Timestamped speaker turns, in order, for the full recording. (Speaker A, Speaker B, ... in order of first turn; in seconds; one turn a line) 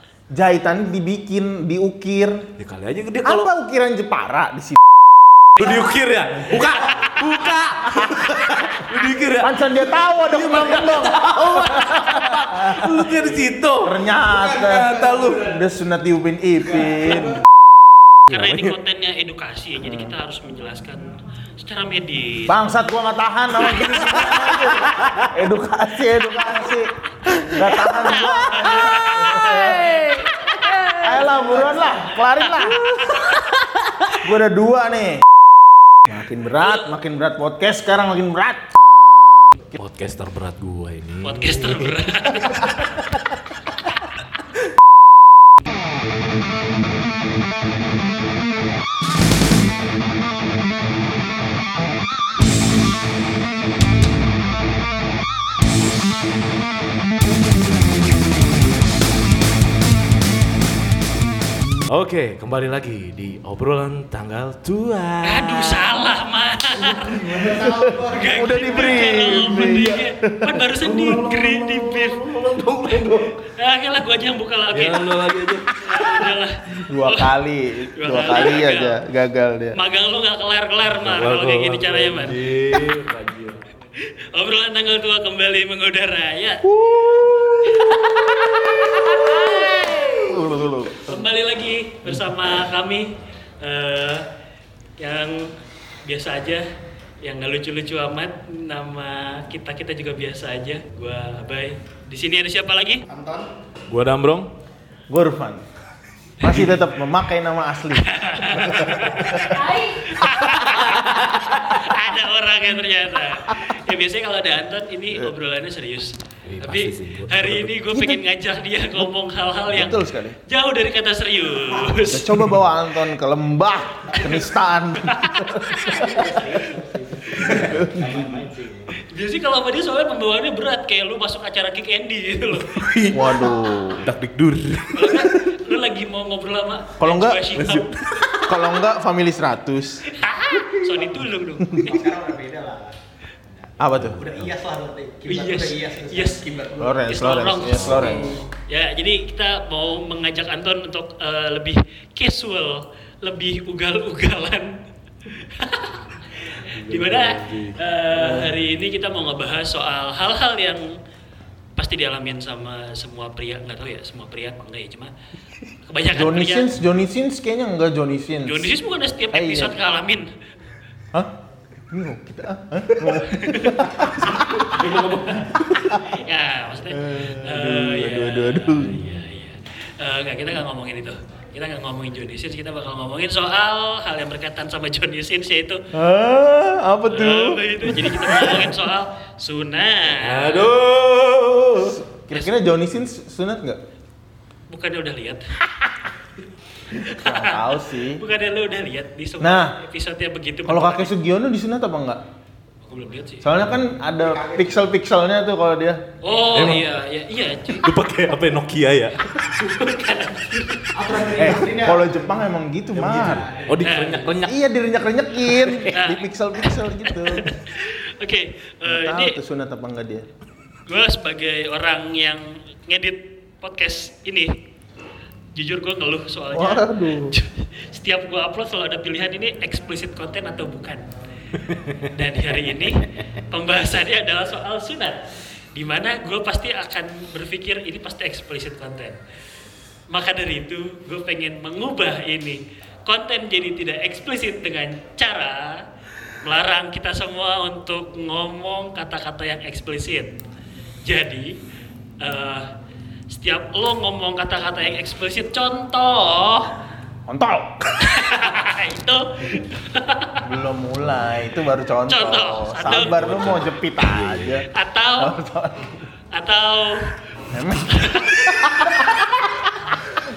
Speaker A: 0.3-2.5
Speaker B: 2.6-3.5
Speaker A: 3.2-4.8
Speaker B: 5.6-14.0
Speaker A: 9.4-13.1
Speaker A: 13.8-17.4
Speaker C: 14.2-15.6
Speaker B: 14.6-15.6
Speaker C: 16.7-17.4
Speaker B: 18.3-18.8
Speaker D: 18.3-22.6
Speaker A: 19.8-20.1
Speaker A: 22.5-30.2
Speaker B: 24.2-25.2
Speaker D: 27.9-30.9
Speaker B: 28.6-31.7
Speaker A: 31.0-33.3
Speaker C: 31.4-32.0
Speaker D: 32.4-33.2
Speaker A: 34.1-35.2
Speaker A: 36.1-38.7
Speaker D: 36.6-36.9
Speaker B: 39.7-42.0
Speaker D: 41.2-43.0
Speaker B: 61.9-65.8
Speaker D: 65.2-67.4
Speaker C: 67.1-69.0
Speaker A: 67.5-71.1
Speaker D: 68.1-72.3
Speaker B: 70.8-73.3
Speaker D: 73.4-75.1
Speaker B: 74.7-76.3
Speaker D: 75.8-77.3
Speaker A: 76.9-79.8
Speaker D: 78.0-79.0
Speaker D: 79.8-82.4
Speaker B: 81.0-83.6
Speaker D: 84.0-86.6
Speaker A: 86.7-88.1
Speaker D: 87.7-90.3
Speaker A: 89.1-89.4
Speaker A: 90.2-91.2
Speaker D: 90.9-94.3
Speaker D: 95.0-95.5
Speaker D: 96.0-96.7
Speaker D: 97.2-103.0
Speaker C: 103.1-103.5
Speaker B: 103.9-104.5
Speaker A: 105.1-105.6
Speaker A: 106.4-109.8
Speaker B: 106.5-106.8
Speaker D: 108.0-122.5
Speaker B: 110.8-111.8
Speaker B: 116.5-117.7
Speaker A: 117.9-118.2
Speaker A: 119.7-120.4
Speaker C: 121.7-122.0
Speaker A: 122.1-126.3
Speaker D: 125.0-126.1
Speaker C: 125.8-129.0
Speaker A: 127.4-128.1
Speaker B: 127.4-127.9
Speaker D: 129.1-132.8
Speaker B: 132.7-135.5
Speaker A: 133.1-134.1
Speaker D: 134.9-137.9
Speaker A: 137.0-137.4
Speaker B: 137.6-138.7
Speaker A: 138.4-140.1
Speaker D: 140.1-141.8
Speaker A: 141.7-141.9
Speaker C: 141.8-143.0
Speaker C: 143.5-147.0
Speaker A: 143.8-144.3
Speaker D: 145.3-146.4
Speaker A: 146.8-148.4
Speaker D: 147.1-160.9
Speaker B: 147.7-148.2
Speaker C: 147.9-148.4
Speaker B: 156.7-157.8
Speaker A: 158.1-158.5
Speaker D: 161.8-165.1
Speaker D: 165.9-166.7
Speaker A: 166.1-168.7
Speaker D: 168.4-170.3
Speaker A: 169.3-169.8
Speaker A: 171.9-174.8
Speaker D: 173.3-173.8
Speaker B: 174.3-175.7
Speaker A: 175.5-176.2
Speaker D: 175.9-185.9
Speaker A: 177.0-179.0
Speaker B: 178.8-179.2
Speaker A: 185.9-188.8
Speaker D: 187.1-190.7
Speaker B: 190.2-192.0
Speaker A: 191.9-193.8
Speaker D: 192.3-192.6
Speaker D: 194.7-195.5
Speaker D: 196.9-201.1
Speaker A: 197.0-198.2
Speaker A: 199.4-199.8
Speaker A: 200.7-202.2
Speaker D: 202.8-203.4
Speaker A: 203.4-206.0
Speaker C: 204.2-204.8
Speaker D: 206.2-207.9
Speaker B: 206.5-206.9
Speaker B: 207.8-209.4
Speaker D: 209.5-211.0
Speaker C: 210.9-214.3
Speaker A: 211.3-213.5
Speaker B: 213.7-214.6
Speaker D: 213.8-214.3
Speaker A: 214.4-217.5
Speaker B: 215.4-216.0
Speaker D: 215.9-216.3
Speaker D: 217.1-219.4
Speaker A: 218.8-220.3
Speaker D: 220.9-224.6
Speaker D: 225.6-231.0
Speaker A: 226.5-227.4
Speaker B: 231.6-232.1
Speaker D: 232.1-235.2
Speaker D: 235.7-239.2
Speaker D: 240.1-245.8
Speaker D: 246.4-250.3
Speaker D: 251.1-251.5
Speaker D: 252.2-252.7
Speaker D: 253.3-256.7
Speaker A: 257.3-257.9
Speaker D: 258.0-260.4
Speaker A: 260.4-264.7
Speaker D: 262.1-263.3
Speaker B: 262.9-264.6
Speaker D: 264.7-265.4
Speaker A: 265.2-266.0
Speaker D: 266.3-267.1
Speaker A: 267.5-269.8
Speaker D: 267.9-269.0